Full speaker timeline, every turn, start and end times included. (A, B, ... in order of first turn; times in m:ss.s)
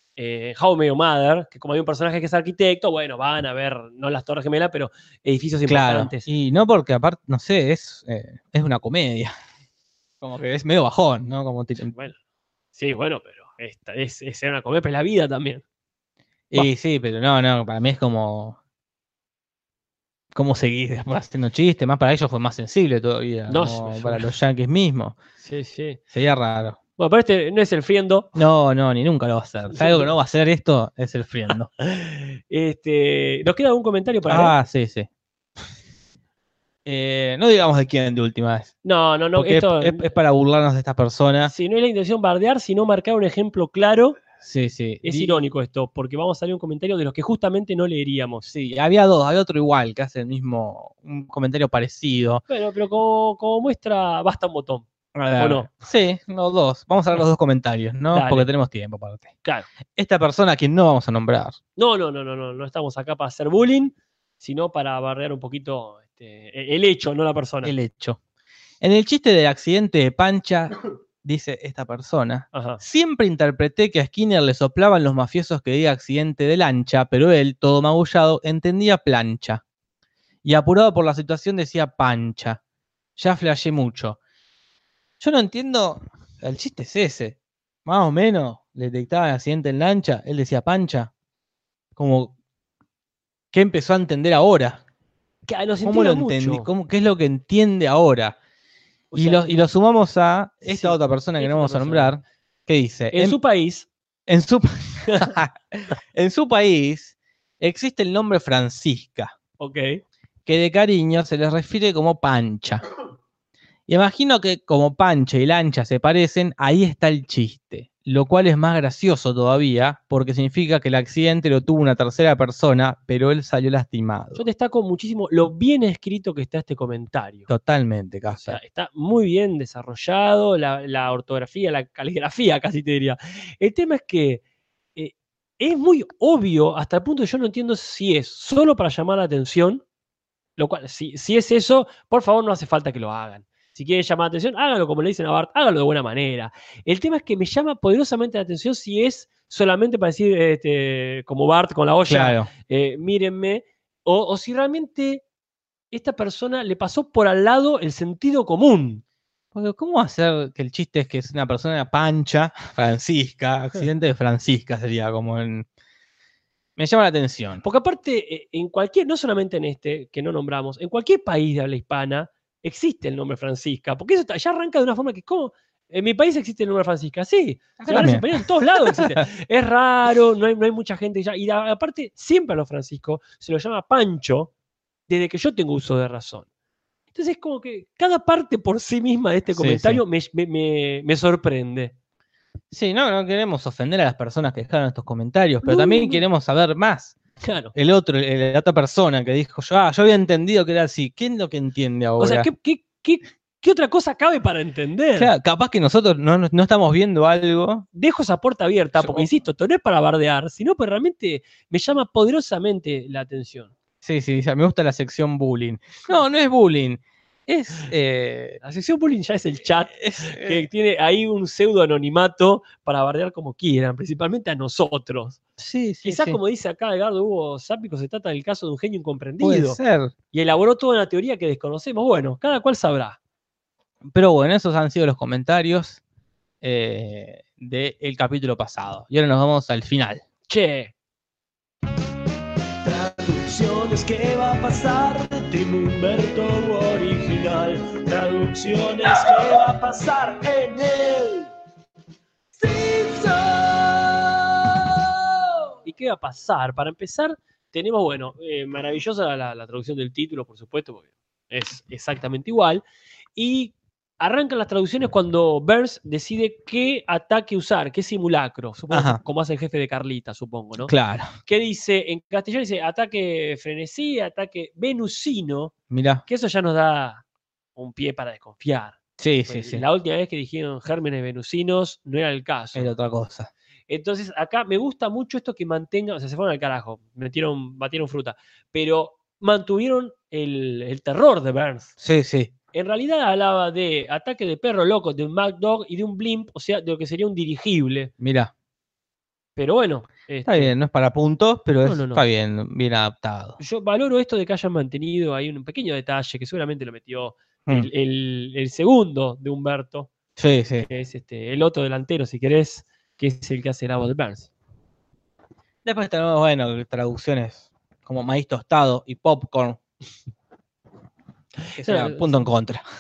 0:00.2-0:06.3 A
0:05.7-0:09.3 B
0:10.2-0:11.9 B
0:12.7-0:15.6 A
0:16.5-0:18.6 B
0:20.3-0:25.2 B
0:23.5-0:24.3 A
0:25.4-0:26.0 A
0:26.1-0:26.8 B
0:27.0-0:28.3 A
0:28.4-0:31.7 B
0:29.7-0:30.1 A
0:31.8-0:34.6 A
0:34.3-0:35.1 B
0:36.8-0:38.7 B
0:38.8-0:40.1 A
0:39.4-0:41.5 B
0:41.4-0:44.2 A
0:44.4-0:45.4 B
0:45.0-0:48.5 A
0:48.4-0:52.4 B
0:52.5-0:55.7 A
0:55.2-0:59.3 B
0:58.1-0:58.5 A
1:00.0-1:01.6 B
1:01.8-1:07.7 A
1:07.6-1:08.2 B
1:08.8-1:19.6 B
1:12.5-1:12.8 A
1:20.4-1:22.6 B
1:23.2-1:24.2 B
1:25.2-1:31.1 B
1:32.0-1:32.3 B
1:33.5-1:34.8 B
1:35.5-1:36.7 A
1:35.8-1:38.4 B
1:39.1-1:39.5 A
1:39.1-1:43.4 B
1:40.6-1:42.2 A
1:43.1-1:43.9 A
1:44.3-1:49.3 B
1:49.6-1:50.0 A
1:50.5-1:52.8 B
1:53.9-2:04.4 B
2:04.4-2:07.5 A
2:07.5-2:08.6 B
2:08.3-2:14.4 A
2:15.0-2:19.8 A
2:20.6-2:35.2 A
2:32.1-2:32.5 B
2:35.9-2:39.0 A
2:39.5-2:45.7 B
2:46.8-2:47.6 B
2:47.6-3:04.5 A
2:57.8-2:59.2 B
3:05.1-3:06.5 A
3:07.1-3:12.0 A
3:09.5-3:10.0 B
3:12.7-3:17.2 B
3:15.6-3:16.2 A
3:17.4-3:17.7 A
3:17.7-3:22.5 B
3:22.2-3:25.3 A
3:25.2-3:27.9 B
3:27.9-3:33.7 A
3:29.0-3:29.3 B
3:34.0-3:38.6 B
3:38.6-3:45.4 A
3:39.9-3:40.6 B
3:45.6-3:46.4 B
3:46.0-3:49.8 A
3:49.4-3:50.1 B
3:50.3-3:53.2 A
3:54.1-3:56.0 B
3:56.6-4:00.2 B
4:00.5-4:00.9 A
4:02.8-4:11.5 C
4:12.6-4:15.4 C
4:15.8-4:22.8 A
4:23.4-4:30.9 A
4:28.9-4:29.2 B
4:30.8-4:31.3 B
4:31.4-4:35.7 A
4:35.9-4:36.2 B
4:36.3-4:37.2 A
4:37.8-4:42.9 A
4:39.2-4:39.8 B
4:42.7-4:43.5 B
4:43.9-4:51.9 A
4:52.0-4:52.5 B
4:52.7-4:58.1 A
4:58.2-4:58.5 B
4:59.6-5:00.7 A
5:00.5-5:03.6 B
5:01.8-5:02.2 A
5:03.6-5:10.1 A
5:10.4-5:10.9 B
5:10.8-5:14.5 A
5:15.8-5:19.8 B
5:21.7-5:22.5 A
5:21.8-5:22.8 B